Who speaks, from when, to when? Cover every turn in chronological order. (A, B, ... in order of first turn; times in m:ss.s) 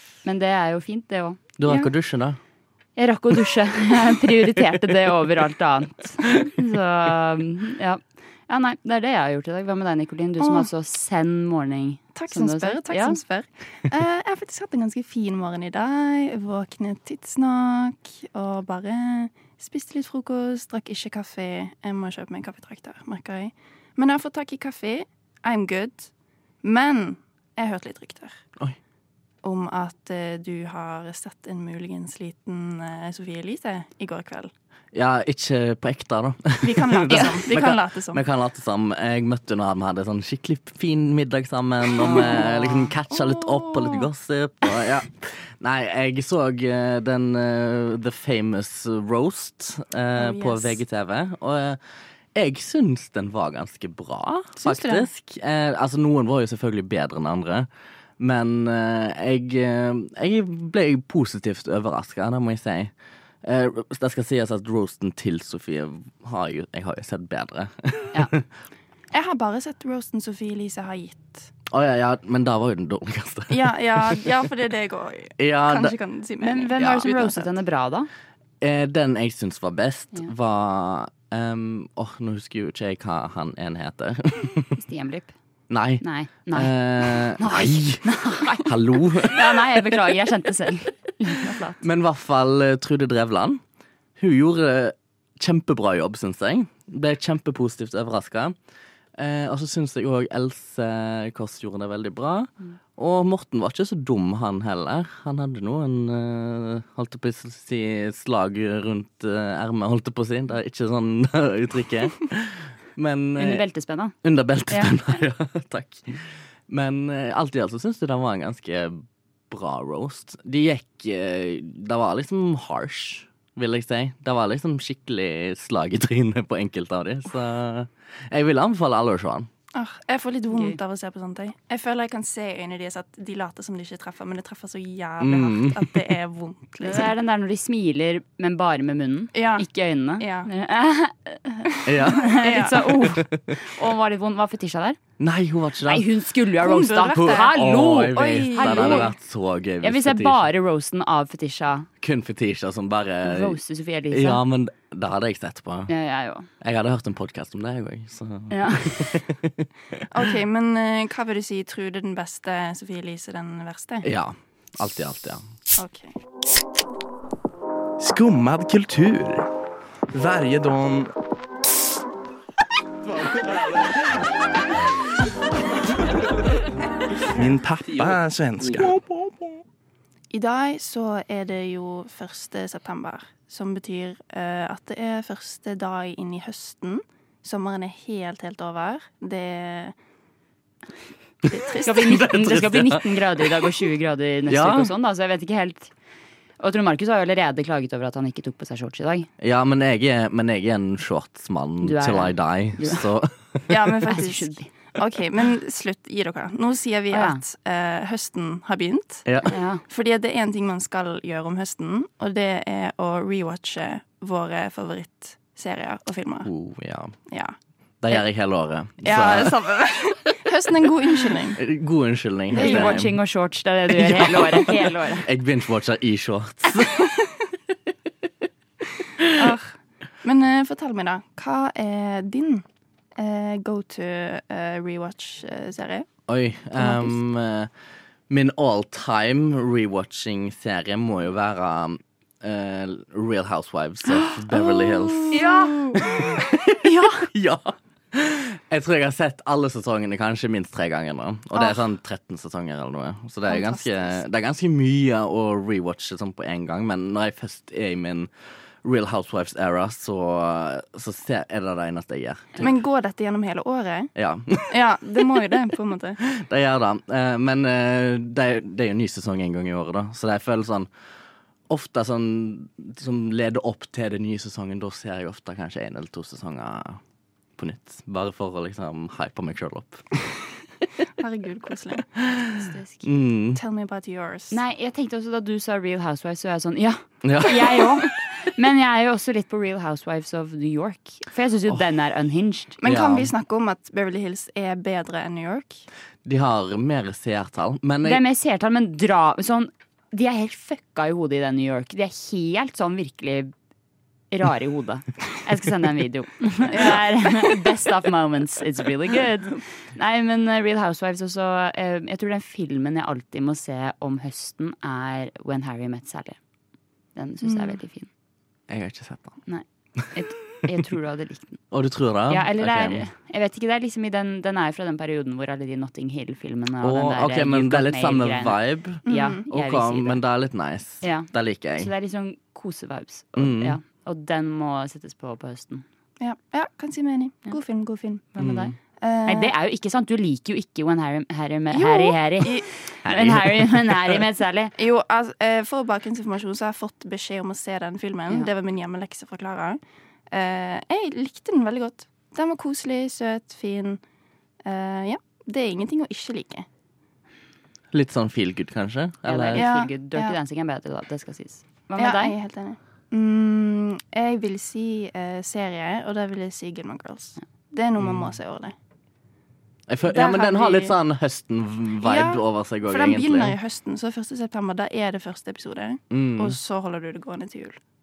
0:00.2-0:01.4 A
0:01.6-0:02.4 B
0:01.6-0:01.9 C
0:03.0-0:13.2 A
0:10.4-0:10.7 C
0:12.1-0:26.1 C
0:26.6-0:28.3 C
0:29.4-0:34.5 C
0:34.9-0:51.8 B
0:36.6-0:38.2 C
0:42.0-0:42.9 A
0:42.0-0:42.4 C
0:43.1-0:44.0 C
0:50.2-0:50.8 C
0:52.3-0:57.7 B
0:54.6-0:55.0 C
0:58.2-1:08.4 B
1:09.1-1:11.5 C
1:11.7-1:14.3 B
1:13.5-1:17.6 C
1:15.4-1:16.0 B
1:16.4-1:18.1 A
1:16.8-1:17.1 B
1:18.6-1:24.7 B
1:24.8-1:25.3 A
1:25.7-1:29.8 B
1:26.0-1:31.8 A
1:31.8-1:33.6 B
1:34.2-1:38.5 B
1:39.2-1:53.6 B
1:53.4-1:54.2 A
1:54.2-2:09.5 B
1:54.7-1:55.0 A
2:09.7-2:17.1 C
2:10.5-2:10.8 A
2:15.2-2:16.1 B
2:16.8-2:25.0 A
2:19.3-2:20.5 C
2:21.8-2:22.8 C
2:21.8-2:23.6 B
2:25.2-2:26.0 B
2:25.8-2:29.1 A
2:26.6-2:27.5 C
2:26.8-2:30.4 B
2:28.1-2:29.1 C
2:29.8-2:31.9 A
2:32.0-2:33.6 B
2:33.2-2:34.4 A
2:34.1-2:35.9 B
2:35.9-2:36.5 A
2:36.6-2:40.0 B
2:38.5-2:39.1 A
2:40.1-2:44.1 C
2:44.0-2:45.5 B
2:45.8-2:46.2 C
2:48.0-2:49.5 D
2:50.1-2:51.1 D
2:57.3-2:58.9 D
3:00.3-3:10.0 C
3:11.5-3:12.2 C
3:11.8-3:15.9 A
3:11.9-3:13.5 B
3:14.5-3:14.9 B
3:16.6-3:19.3 A
3:19.4-3:24.0 B
3:21.8-3:23.0 A
3:23.7-3:29.2 C
3:24.1-3:24.7 A
3:27.1-3:27.4 A
3:29.2-3:29.5 B
3:29.5-3:29.8 A
3:29.9-3:36.5 C
3:36.4-3:37.2 B
3:37.3-3:37.5 C
3:38.0-3:39.6 B
3:39.0-3:41.6 C
3:41.6-3:43.2 B
3:42.5-3:43.0 C
3:42.5-3:45.2 A
3:43.9-3:47.1 B
3:49.3-3:52.6 C
3:53.2-3:56.1 C
3:56.3-3:57.7 B
3:56.8-3:57.2 C
3:58.3-4:18.3 B
4:04.5-4:06.0 C
4:05.3-4:06.0 A
4:06.8-4:07.3 A
4:13.5-4:14.2 C
4:18.8-4:22.8 B
4:22.6-4:24.1 C
4:24.2-4:25.0 B
4:24.7-4:26.2 C
4:26.2-4:30.9 B
4:31.7-4:37.0 B
4:37.6-4:40.2 B
4:41.2-4:42.1 C
4:42.2-4:43.6 B
4:42.6-4:43.0 A
4:43.5-4:44.6 C
4:44.5-4:52.8 A
4:47.2-4:48.1 B
4:52.8-4:55.8 C
4:52.8-4:53.3 B
4:56.2-4:58.2 B
4:58.0-5:03.5 A
5:04.3-5:16.4 A
5:06.7-5:07.6 C
5:17.2-5:18.1 A
5:17.4-5:17.8 C
5:18.7-5:19.4 B
5:19.5-5:21.6 A
5:21.7-5:23.0 B
5:22.3-5:30.2 A
5:26.8-5:31.9 B
5:29.1-5:29.4 C
5:31.0-5:35.8 A
5:33.4-5:33.8 B
5:36.2-5:38.3 C
5:38.3-5:38.7 A
5:38.4-5:38.8 B
5:39.0-5:39.5 C
5:39.2-5:44.7 A
5:41.7-5:42.7 C
5:43.0-5:44.2 B
5:44.8-5:54.0 C
5:54.6-5:56.6 C
5:57.9-5:59.7 B
5:59.3-6:02.3 A
5:59.6-6:00.4 C
6:02.0-6:08.7 C
6:08.0-6:08.3 B
6:09.9-6:13.6 B
6:10.1-6:10.9 C
6:12.0-6:17.8 C
6:16.1-6:16.6 B